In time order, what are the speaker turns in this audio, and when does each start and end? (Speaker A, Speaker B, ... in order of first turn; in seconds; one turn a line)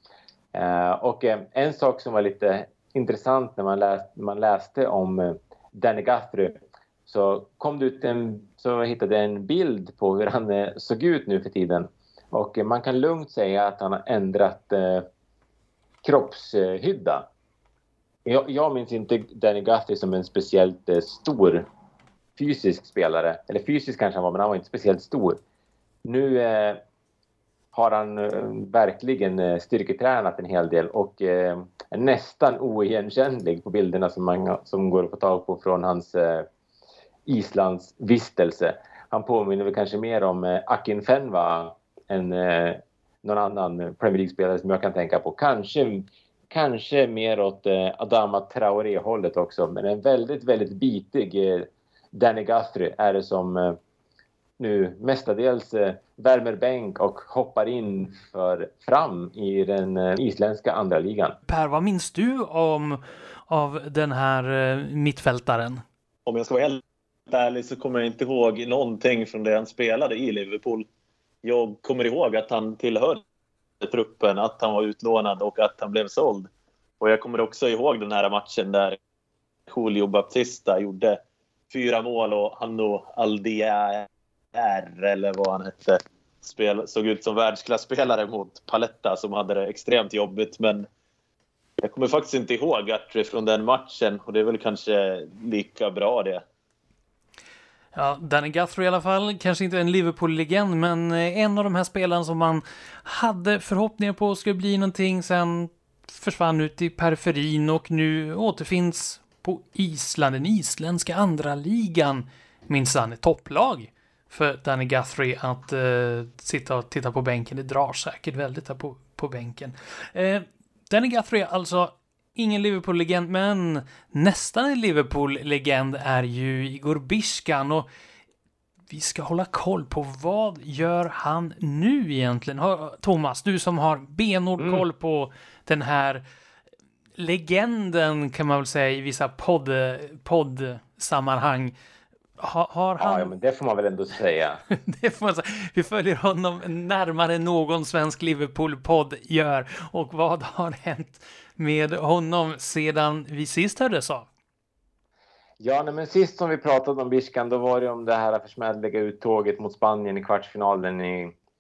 Speaker A: 0.5-15.1
Speaker A: 16.0-17.3
Speaker A: 18.2-21.7
Speaker A: 22.4-25.4
Speaker A: 26.1-26.8
Speaker A: 27.7-36.5
Speaker A: 37.3-53.8
Speaker A: 54.6-61.4
Speaker B: 61.5-65.8
Speaker C: 66.3-70.9
Speaker C: 71.4-73.2
Speaker C: 73.8-76.5
Speaker C: 77.0-79.0
Speaker C: 79.7-81.2
Speaker C: 81.7-90.9
Speaker C: 91.8-96.4
Speaker B: 98.0-127.9
Speaker B: 128.9-136.2
Speaker A: 134.6-134.8
Speaker B: 137.2-141.7
Speaker B: 142.4-143.3
Speaker A: 143.0-144.6
Speaker B: 144.7-154.3
Speaker A: 155.6-161.4